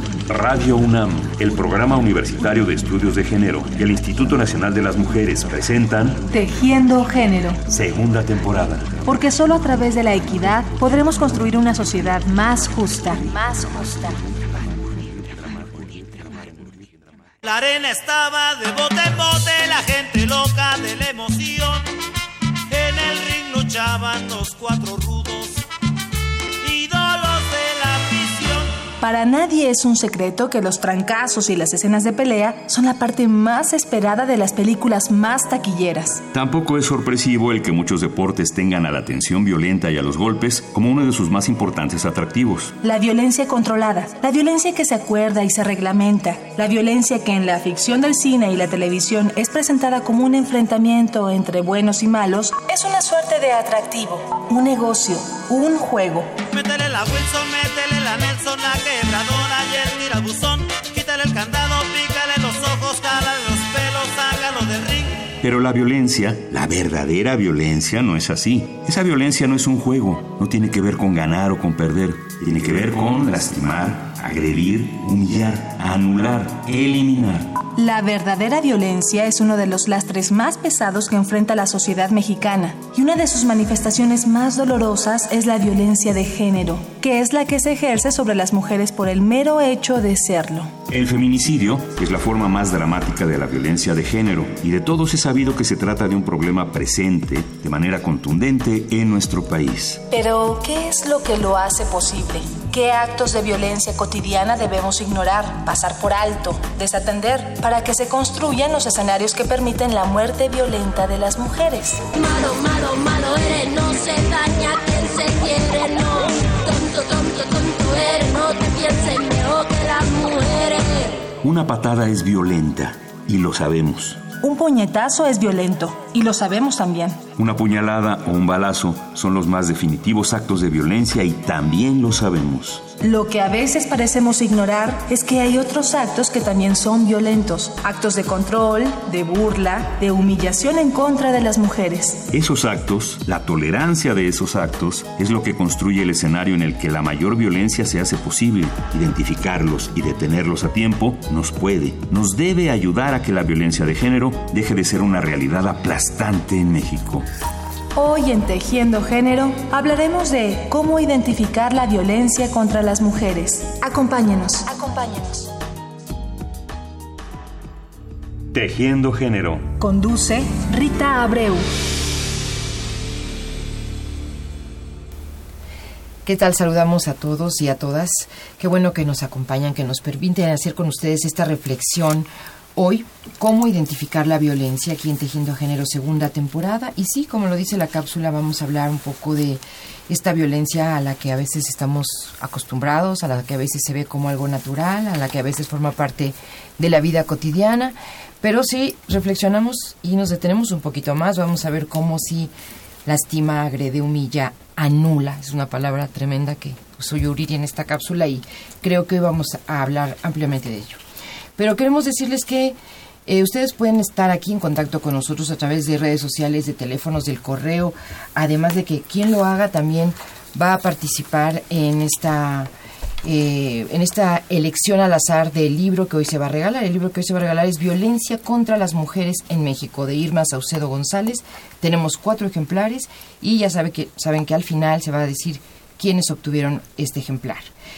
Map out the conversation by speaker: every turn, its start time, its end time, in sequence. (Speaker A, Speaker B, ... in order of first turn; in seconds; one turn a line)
Speaker A: 0.3-6.2
Speaker B: 6.3-7.6
Speaker A: 7.7-8.9
Speaker B: 9.0-14.2
Speaker C: 17.4-21.9
Speaker C: 22.7-25.6
Speaker C: 26.6-28.8
Speaker B: 29.0-36.2
Speaker A: 36.3-42.7
Speaker B: 42.8-56.3
Speaker C: 56.5-65.3
Speaker A: 65.4-77.5
Speaker B: 77.8-90.7
Speaker A: 90.9-100.0
Speaker B: 100.1-112.0
Speaker D: 112.1-121.2
Speaker A: 121.4-124.2
Speaker B: 124.4-127.2
Speaker A: 127.4-132.8
Speaker B: 133.0-142.2
Speaker A: 142.3-157.2
Speaker B: 157.9-165.5
Speaker A: 168.5-169.6
Speaker B: 169.8-171.7
Speaker E: 176.2-202.5
Speaker E: 203.0-211.0
Speaker E: 211.6-222.7
Speaker E: 223.2-237.7